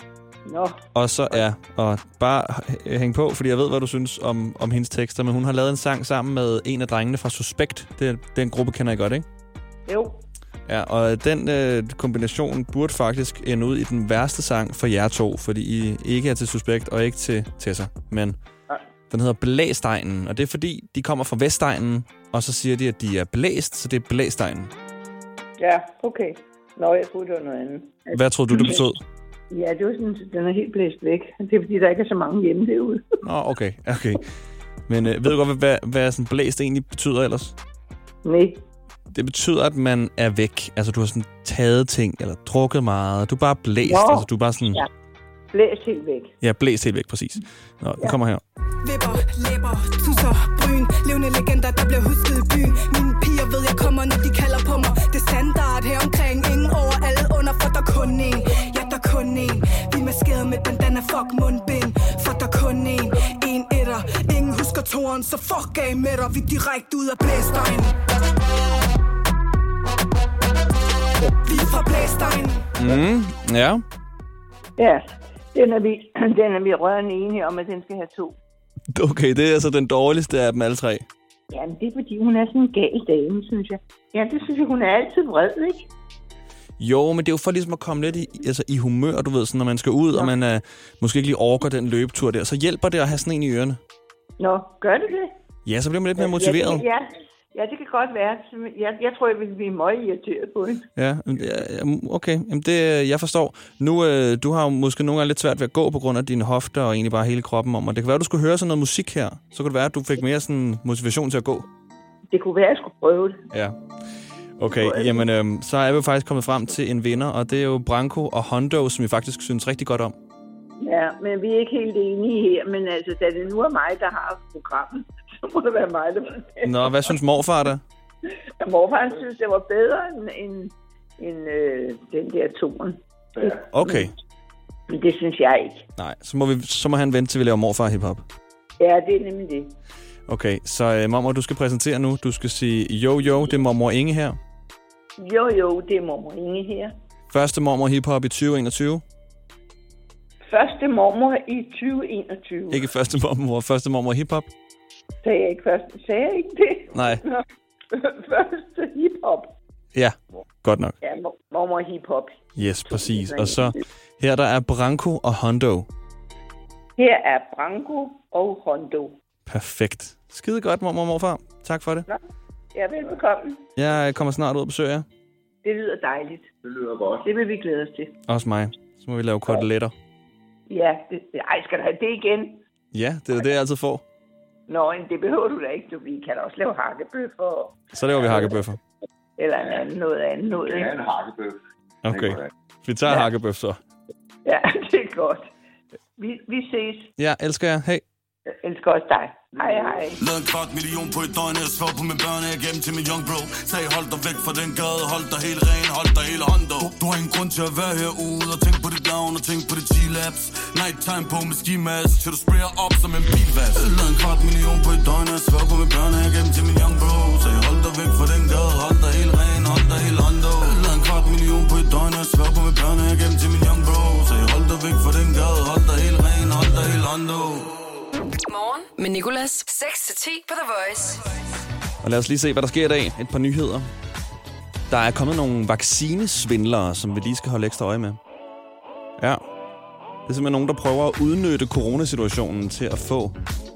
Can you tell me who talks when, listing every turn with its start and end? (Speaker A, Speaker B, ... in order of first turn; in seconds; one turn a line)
Speaker A: 0.5-0.8
Speaker B: 0.9-9.2
Speaker A: 9.8-10.2
Speaker B: 10.7-18.4
Speaker B: 19.1-24.7
Speaker A: 25.6-28.8
Speaker B: 28.1-29.0
Speaker A: 29.5-33.0
Speaker B: 33.2-34.2
Speaker B: 34.9-37.5
Speaker A: 38.2-38.6
Speaker B: 39.1-44.8
Speaker A: 43.8-44.9
Speaker A: 45.5-46.3
Speaker B: 46.4-48.4
Speaker C: 48.8-68.0
Speaker C: 71.4-72.7
Speaker B: 72.8-73.8
Speaker A: 74.8-78.4
Speaker B: 78.9-81.0
Speaker A: 81.5-85.9
Speaker B: 86.8-93.8
Speaker A: 94.4-95.3
Speaker B: 95.7-96.8
Speaker A: 96.2-100.9
Speaker B: 101.0-111.7
Speaker A: 112.3-113.4
Speaker B: 113.5-113.8
Speaker B: 114.6-120.1
Speaker A: 114.7-115.2
Speaker A: 120.8-127.1
Speaker B: 126.6-127.8
Speaker A: 128.6-133.0
Speaker D: 133.4-133.6
Speaker B: 133.7-134.1
Speaker A: 134.9-135.8
Speaker B: 136.0-138.2
Speaker A: 138.8-139.7
Speaker B: 140.3-144.4
Speaker A: 145.2-146.9
Speaker B: 147.3-149.0
Speaker A: 150.5-152.9
Speaker B: 152.7-154.5
Speaker A: 155.2-159.5
Speaker B: 156.9-157.2
Speaker B: 159.9-160.9
Speaker A: 161.0-163.8
Speaker B: 162.6-165.9
Speaker A: 167.0-169.2
Speaker B: 169.5-172.1
Speaker A: 172.7-173.6
Speaker B: 173.8-175.1
Speaker A: 175.6-176.5
Speaker D: 176.6-177.3
Speaker A: 177.2-178.1
Speaker B: 178.3-179.9
Speaker A: 180.7-182.6
Speaker B: 182.9-184.0
Speaker A: 184.7-187.8
Speaker B: 187.9-188.8
Speaker A: 189.4-190.9
Speaker D: 190.6-192.5
Speaker B: 192.0-193.8
Speaker A: 194.4-195.5
Speaker A: 196.2-197.1
Speaker B: 197.2-198.0
Speaker A: 198.5-200.2
Speaker D: 199.6-199.9
Speaker E: 200.2-227.7
Speaker F: 228.5-231.3
Speaker B: 232.0-233.9
Speaker B: 234.9-238.2
Speaker B: 240.3-243.3